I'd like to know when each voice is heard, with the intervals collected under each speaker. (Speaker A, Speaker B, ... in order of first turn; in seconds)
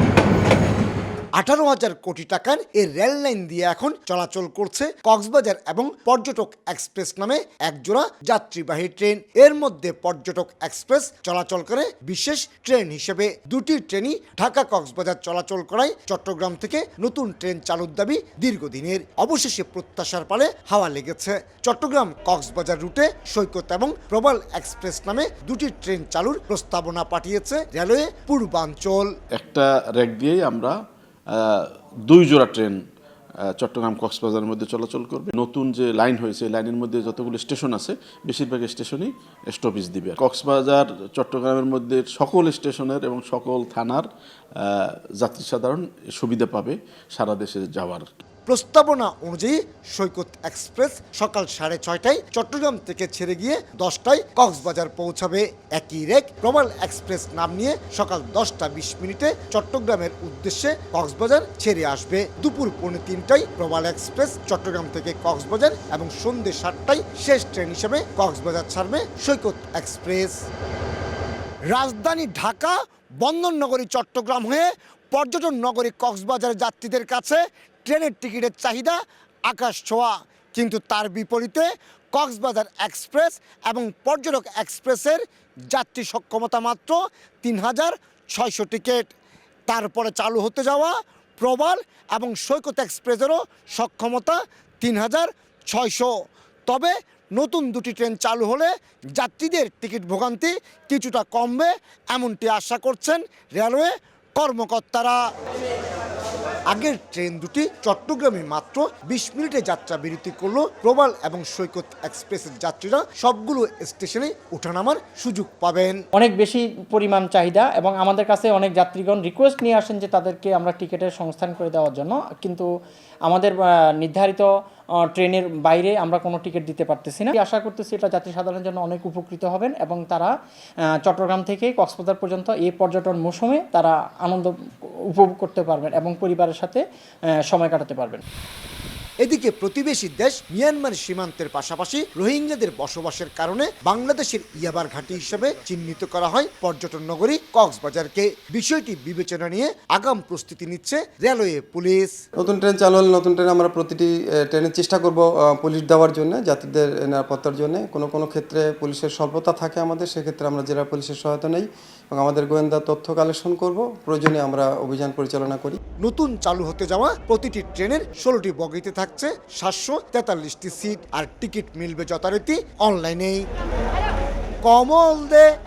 Speaker A: 1.4-29.1, 48.5-70.4, 71.7-89.1, 89.7-96.1, 96.7-105.2, 106.7-116.0, 139.2-152.1, 166.0-173.5, 174.6-175.5
Speaker B: 29.3-30.8, 31.3-32.8, 33.6-44.1, 44.6-48.1
Speaker C: 116.2-122.7, 123.3-124.5, 125.1-130.3, 131.0-134.5, 135.1-136.8, 137.5-138.2
Speaker D: 152.4-165.8